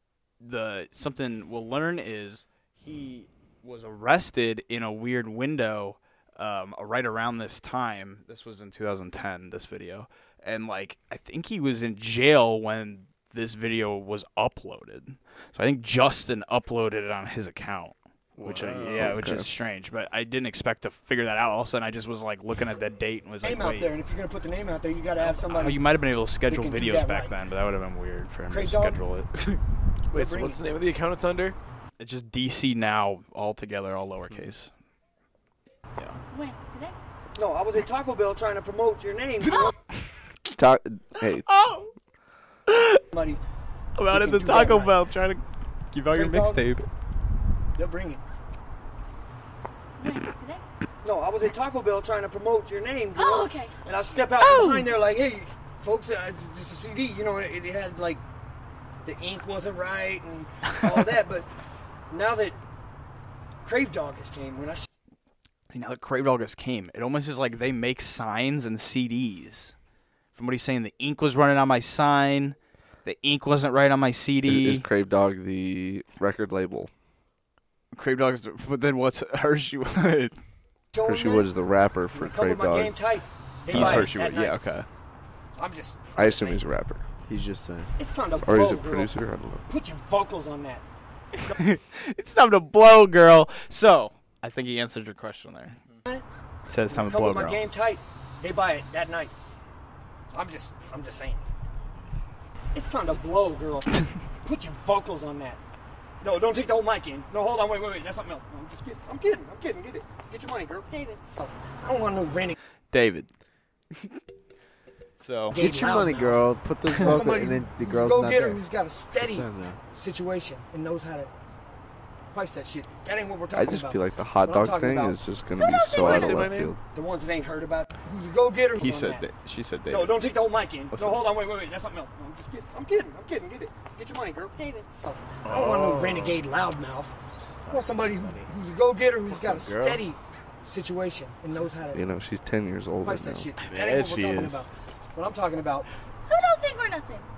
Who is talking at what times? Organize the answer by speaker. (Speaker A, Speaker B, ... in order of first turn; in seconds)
Speaker A: 0.4-23.9, 25.2-29.6, 32.0-34.7, 36.0-36.2, 41.5-41.9, 42.7-43.0, 44.0-46.9, 54.4-54.7, 65.7-69.7, 70.3-74.9, 77.9-80.4, 83.7-84.9, 91.5-95.8, 96.7-97.6, 112.9-113.3, 115.2-115.6, 128.8-130.2, 137.3-138.5
Speaker B: 18.4-19.1, 30.1-31.6, 125.9-126.8, 135.4-136.4, 139.4-140.0, 143.6-144.7
Speaker C: 18.9-19.5, 40.5-41.5, 74.4-76.9, 81.0-83.0, 83.7-84.1, 86.2-87.0, 88.4-89.6, 123.5-126.8, 141.9-143.5
Speaker D: 23.4-25.8, 26.5-27.4, 28.5-29.0, 30.1-30.6, 37.4-39.7, 43.1-43.4, 44.1-45.0, 46.1-46.6, 47.8-48.2, 51.0-58.2, 59.0-61.5, 62.1-62.6, 63.6-64.9, 80.9-81.5, 82.1-84.6, 85.6-86.6, 88.0-89.1, 89.7-90.8, 96.9-99.3, 100.3-101.4, 102.7-105.6, 106.2-110.9, 111.4-112.6, 115.5-121.3, 122.3-125.2, 126.9-129.2, 129.9-134.5, 135.0-137.1, 137.7-142.1, 143.0-145.9
Speaker E: 36.3-37.0, 50.0-50.6, 53.1-53.7, 110.9-111.2, 125.6-126.5, 134.6-134.9, 146.3-147.2
Speaker F: 87.2-87.9, 115.5-118.6, 119.1-119.8, 139.4-140.0